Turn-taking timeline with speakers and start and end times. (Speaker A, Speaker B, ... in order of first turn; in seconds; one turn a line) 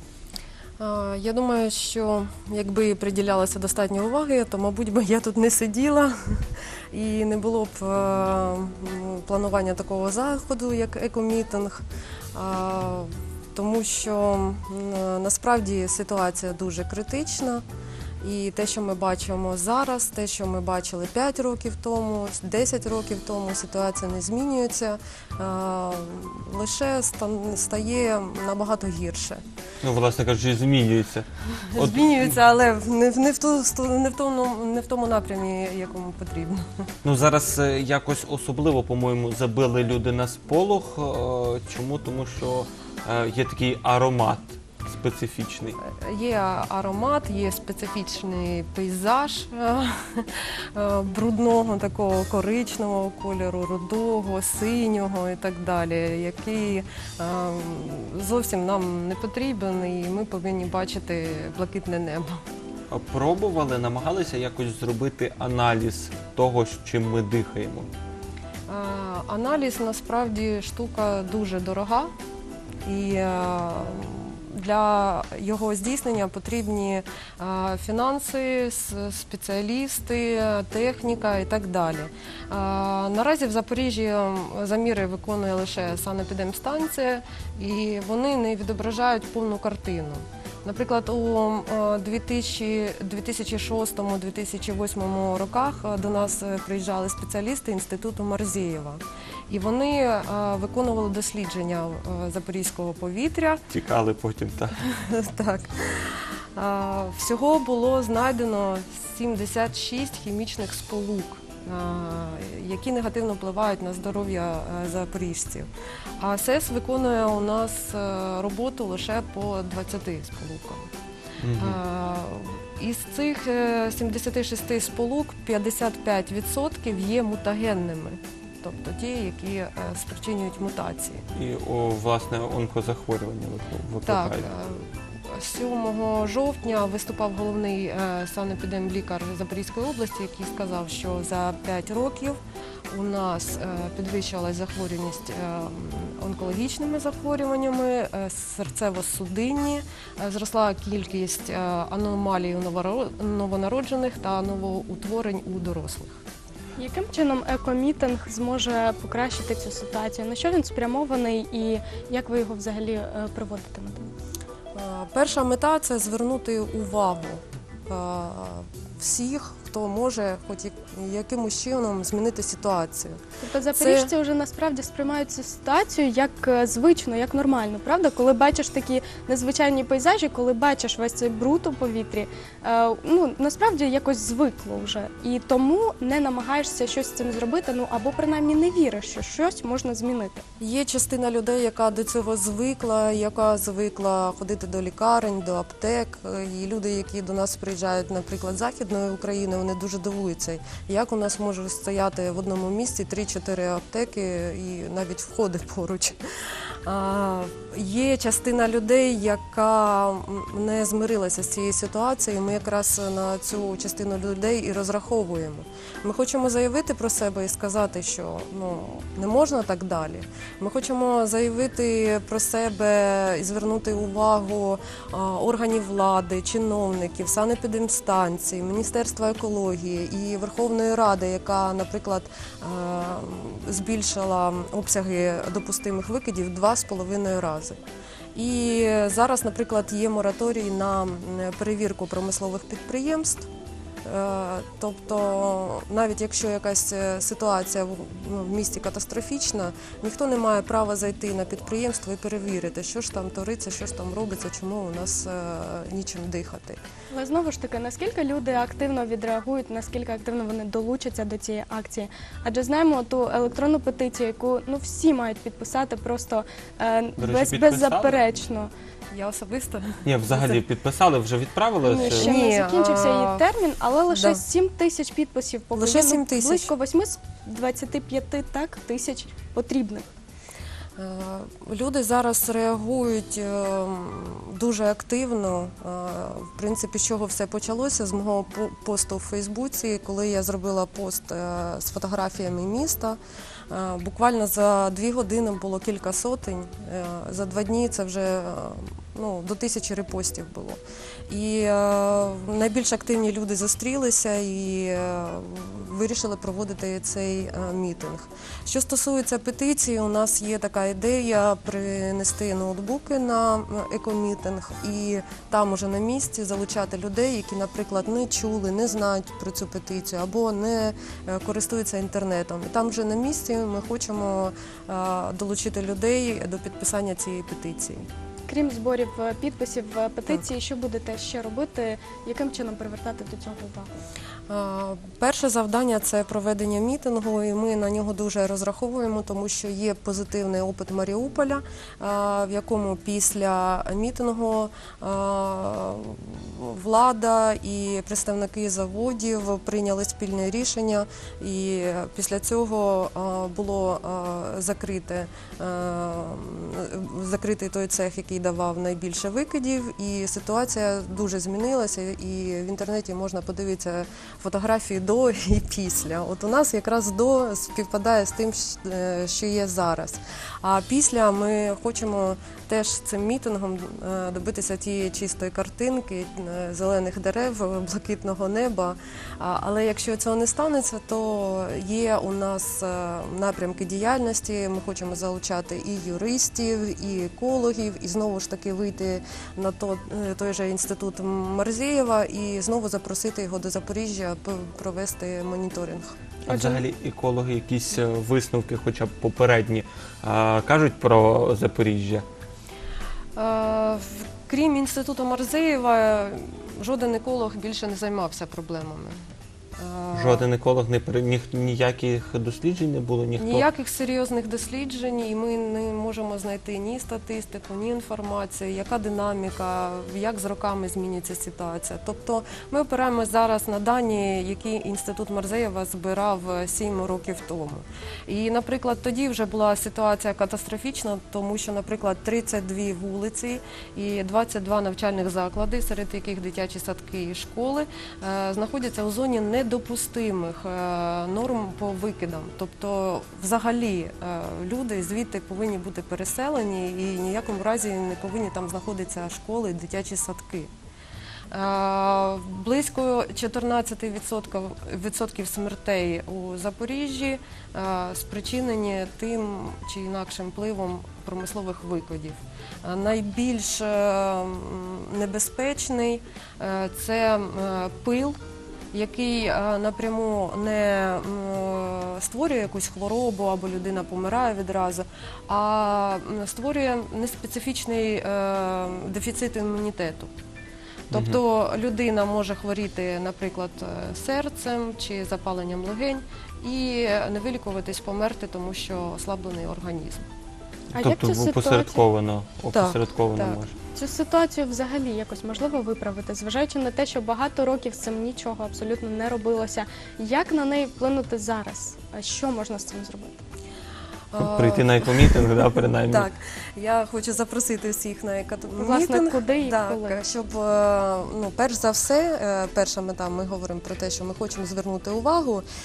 Speaker A: 0.8-11.8
Speaker A: 12.3-17.6
Speaker A: 18.2-29.4
Speaker B: 29.8-32.3
Speaker A: 31.7-36.6
Speaker B: 37.0-45.8
Speaker A: 45.8-62.4
Speaker B: 62.9-67.9
Speaker A: 68.7-72.1
Speaker A: 72.8-103.6
Speaker B: 103.7-104.8
Speaker A: 104.8-115.7
Speaker A: 116.2-120.9
Speaker B: 121.4-121.8
Speaker A: 121.6-131.2
Speaker B: 131.3-134.5
Speaker A: 134.0-142.4
Speaker A: 142.9-156.2
Speaker C: 156.8-164.1
Speaker A: 164.7-173.2
Speaker C: 173.4-190.4
Speaker A: 173.7-174.1
Speaker A: 190.6-206.2
Speaker A: 206.8-237.8
Speaker A: 238.3-243.5
Speaker A: 244.0-256.8
Speaker C: 257.1-268.7
Speaker B: 267.2-268.2
Speaker A: 269.1-270.6
Speaker B: 270.0-272.3
Speaker C: 271.9-280.1
Speaker A: 272.0-273.4
Speaker A: 274.1-274.4
Speaker A: 275.8-276.7
Speaker A: 281.0-293.2
Speaker A: 293.7-328.0
Speaker C: 328.5-333.9
Speaker A: 334.5-396.1
Speaker C: 396.5-396.8
Speaker B: 396.5-402.2
Speaker A: 403.4-409.2
Speaker A: 409.8-410.5
Speaker B: 410.1-413.6
Speaker A: 413.4-450.7
Speaker A: 451.5-468.4
Speaker A: 468.9-480.3
Speaker A: 481.1-490.2
Speaker B: 481.1-481.4
Speaker B: 490.9-493.8
Speaker C: 490.9-492.0
Speaker A: 492.7-493.6
Speaker C: 493.9-503.4
Speaker A: 504.3-515.6
Speaker B: 504.4-506.3
Speaker C: 508.8-510.2